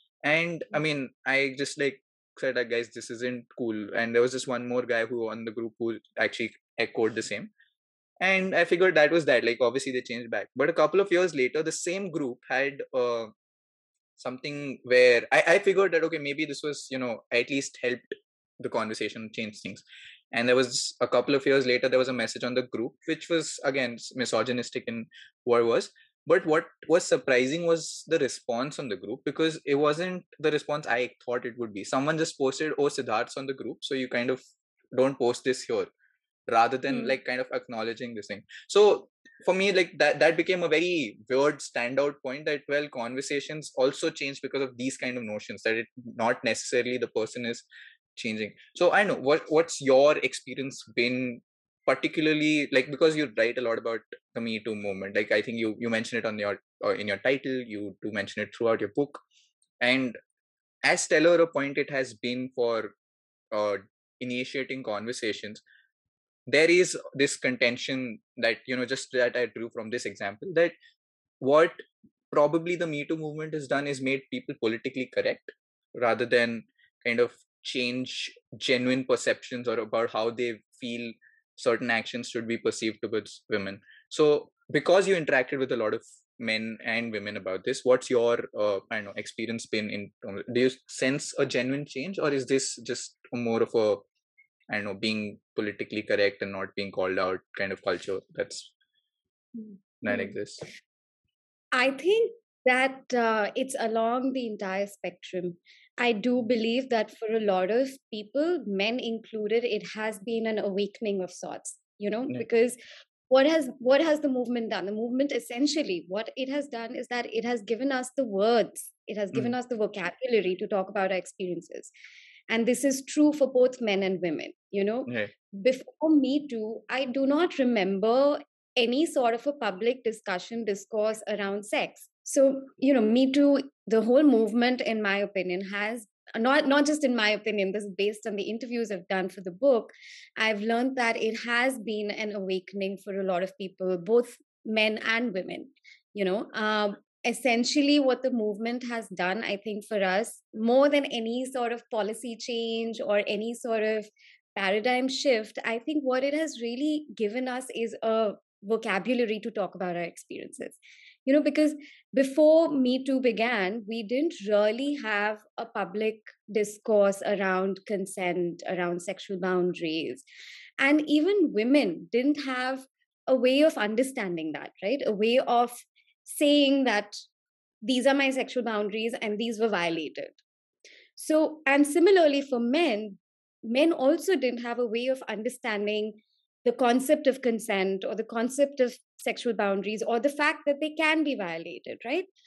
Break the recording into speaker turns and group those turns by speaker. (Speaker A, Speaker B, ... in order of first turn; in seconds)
Speaker A: 0.2-7.5, 8.2-13.3, 14.2-34.4, 34.9-35.9, 36.5-47.6, 48.1-59.2, 59.8-60.2, 60.8-62.9, 63.5-65.6, 66.5-70.7, 71.4-71.8, 72.3-94.0, 94.7-98.7, 100.0-100.6, 125.1-125.3
Speaker B: 36.9-37.1, 99.5-100.3, 101.7-121.9, 122.5-170.2, 170.8-177.2, 177.8-180.4, 181.2-192.3